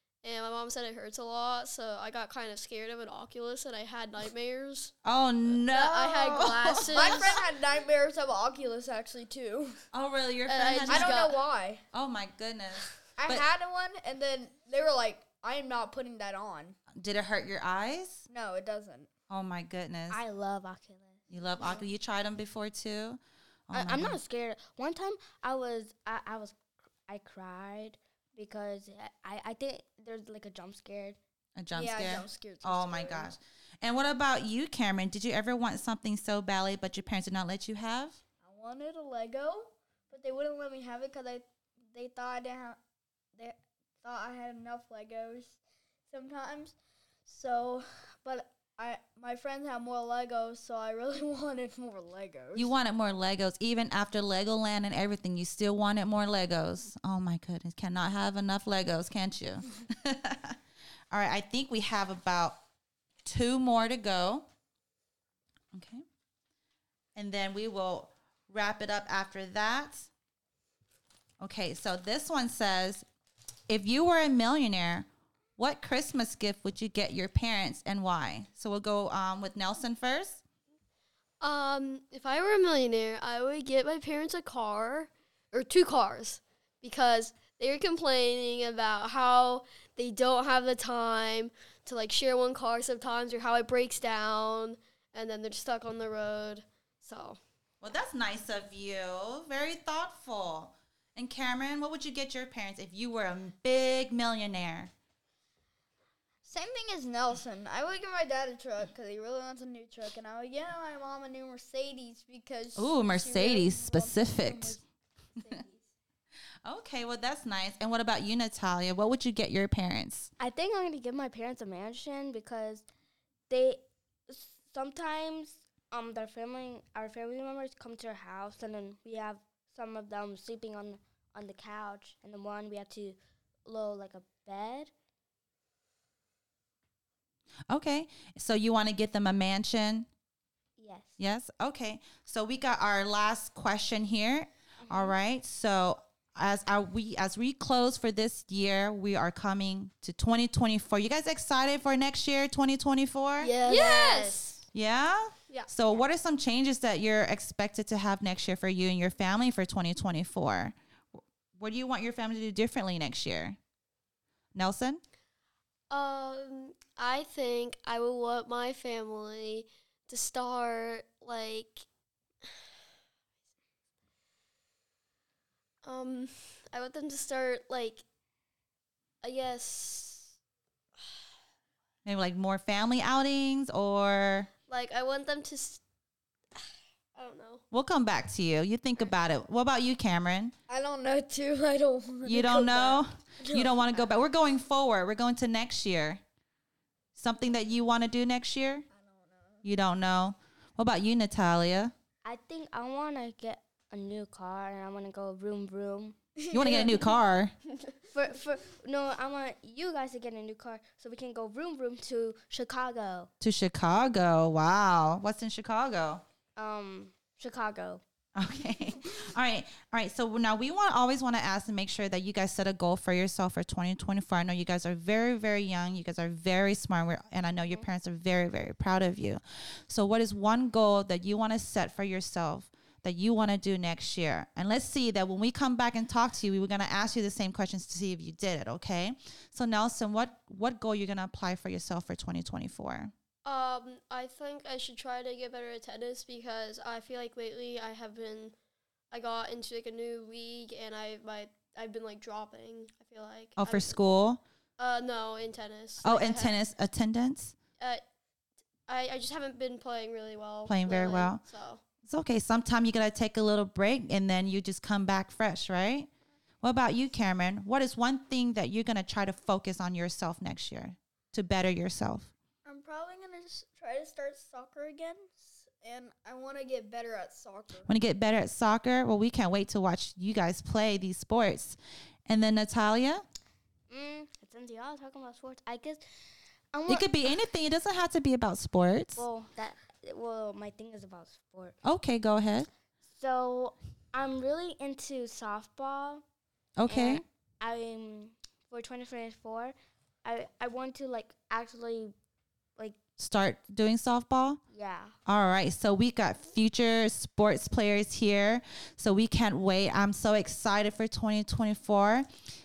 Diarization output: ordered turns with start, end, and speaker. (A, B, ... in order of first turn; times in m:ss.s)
0:00.2-0:04.9 A
0:05.0-0:07.4 B
0:05.5-0:07.4 A
0:06.8-0:09.8 C
0:09.9-0:11.2 B
0:10.5-0:11.4 A
0:10.9-0:11.8 C
0:11.9-0:13.5 B
0:13.2-0:16.8 C
0:17.0-0:18.3 B
0:18.3-0:19.1 C
0:19.3-0:20.2 B
0:20.1-0:21.3 D
0:21.3-0:24.2 B
0:23.7-0:31.2 D
0:31.6-0:38.2 B
0:31.7-0:33.3 C
0:38.4-0:42.8 C
0:43.4-0:45.6 C
0:46.1-0:52.7 C
0:52.5-1:00.6 B
1:01.1-1:02.6 B
1:03.2-1:04.4 B
1:05.7-1:06.0 B
1:07.1-1:10.1 B
1:11.4-1:13.0 B
1:13.7-1:20.4 B
1:21.4-1:37.4 A
1:37.8-1:44.9 B
1:46.4-1:54.8 C
1:52.8-1:54.8 B
1:55.4-1:55.9 C
1:56.6-2:00.3 B
2:00.4-2:02.9 D
2:03.5-2:14.9 D
2:17.7-2:20.1 B
2:20.8-2:21.2 D
2:21.2-2:33.5 B
2:24.8-2:25.1 D
2:33.4-2:34.5 C
2:33.6-2:34.6 A
2:34.7-2:43.6 B
2:44.5-2:45.0 B
2:45.9-2:51.8 A
2:55.8-2:58.0 A
2:59.2-3:00.3 A
3:02.0-3:04.5 B
3:04.7-3:05.8 A
3:07.1-3:07.6 A
3:07.7-3:10.5 B
3:10.7-3:14.0 C
3:12.2-3:16.2 B
3:17.2-3:18.9 B
3:18.9-3:19.6 C
3:19.6-3:21.9 B
3:22.2-3:26.2 D
3:26.4-3:27.1 C
3:26.5-3:27.5 B
3:28.1-3:33.3 D
3:33.4-3:36.2 B
3:36.6-3:38.0 D
3:38.4-4:03.1 B
4:03.4-4:08.5 A
4:09.1-4:14.2 A
4:13.6-4:14.4 B
4:14.8-4:16.6 A
4:16.0-4:17.5 B
4:18.9-4:21.8 A
4:20.6-4:21.4 B
4:22.0-4:26.1 B
4:26.6-4:32.3 B
4:32.6-4:37.9 C
4:37.8-4:43.2 B
4:43.9-4:46.0 D
4:46.7-4:47.1 D
4:46.9-4:49.2 B
4:49.2-4:51.8 D
4:51.8-4:52.7 B
4:53.1-4:56.2 D
4:56.8-4:57.2 B
4:56.9-5:02.1 D
5:03.2-5:04.6 B
5:04.7-5:05.2 D
5:05.2-5:12.3 B